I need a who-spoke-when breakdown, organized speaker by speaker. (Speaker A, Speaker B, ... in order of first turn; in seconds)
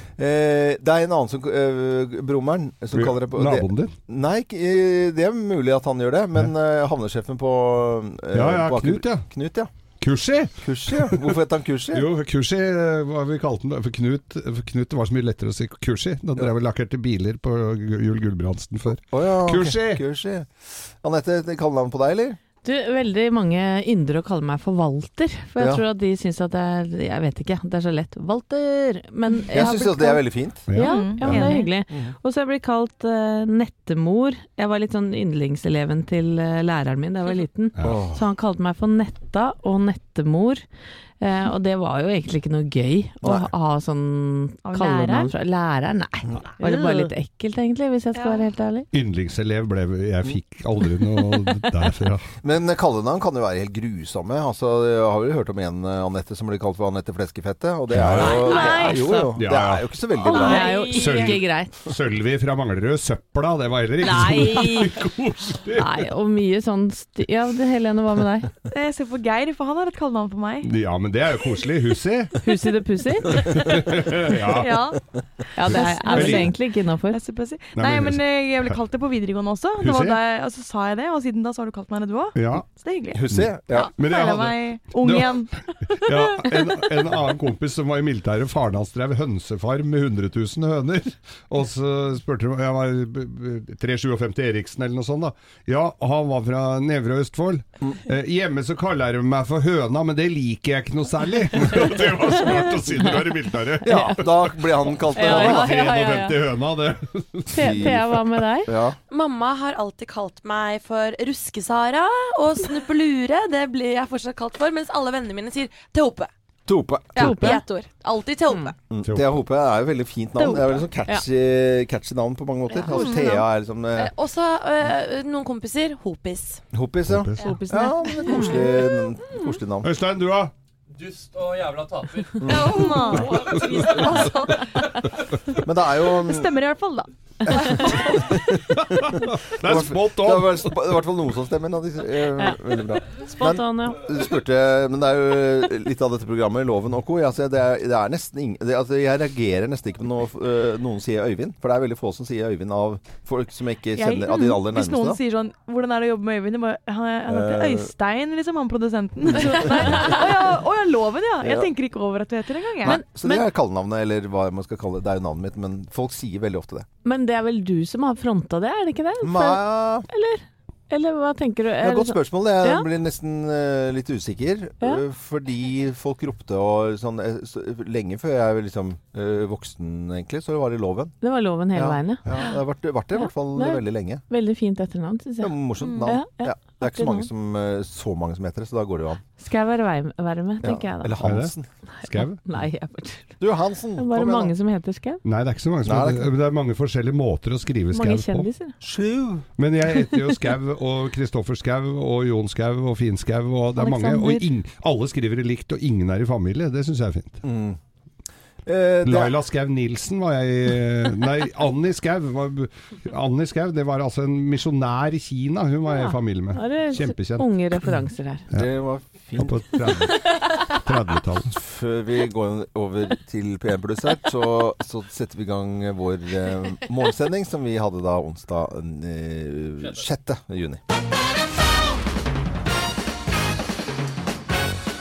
Speaker A: 0.2-9.7, 10.6-12.1, 19.1-22.4, 29.5-30.7, 31.9-32.1, 37.8-38.2, 43.2-43.5, 52.4-60.7, 83.1-83.9, 103.8-105.7, 107.5-108.0, 108.7-109.0, 116.7-117.5, 118.9-124.1, 126.7-129.9, 132.4-132.8, 135.6-136.5, 137.5-155.2, 157.3-157.9, 159.3-160.1, 161.4-161.7, 162.8-166.8, 169.2-170.1, 171.8-181.1, 181.8-184.2, 185.4-189.2, 190.6-191.7, 193.4-194.5, 195.8-196.3, 198.8-199.4, 207.4-207.8, 208.7-209.4, 218.5-220.1, 221.6-230.8
Speaker B: 2.9-3.9, 8.3-9.2, 10.0-11.3, 11.9-20.0, 30.7-31.6, 37.8-38.0, 48.9-52.3, 57.9-58.5, 59.4-60.0, 60.8-66.1, 70.6-72.5, 73.3-74.9, 75.7-76.5, 77.7-78.8, 79.8-80.2, 82.3-82.6, 83.3-85.5, 86.0-104.3, 105.1-108.4, 127.1-127.6, 129.8-130.5, 132.4-134.3, 138.4-140.9, 191.2-192.4, 195.2-198.5, 199.6-207.4, 209.0-217.9, 219.4-221.6
Speaker C: 22.6-30.2, 30.7-40.6, 41.2-48.9, 58.1-59.3, 60.2-61.7, 64.0-64.9, 65.7-68.5, 72.4-73.5, 75.5-77.2, 102.5-103.2, 103.9-104.2, 105.1-106.4, 107.5-108.7, 117.2-117.6, 120.4-121.2, 127.4-128.8, 142.3-144.0, 162.8-163.4, 167.0-172.8, 181.2-182.2, 183.1-185.5, 186.1-187.3, 189.4-191.2, 192.0-193.4, 194.0-195.2, 197.9-198.8, 203.8-204.4, 215.9-218.4
Speaker D: 30.8-31.7, 44.6-45.3, 58.5-59.1, 60.6-60.9, 68.7-70.7, 73.8-75.0, 75.6-76.6, 77.1-83.2, 83.7-86.9, 122.9-123.2, 132.4-135.0, 136.0-137.9, 153.9-163.0, 185.8-186.2
Speaker E: 48.1-48.5, 58.4-58.9, 60.4-61.0, 109.1-116.3, 117.1-118.8, 122.8-123.4, 124.0-126.6, 133.2-134.5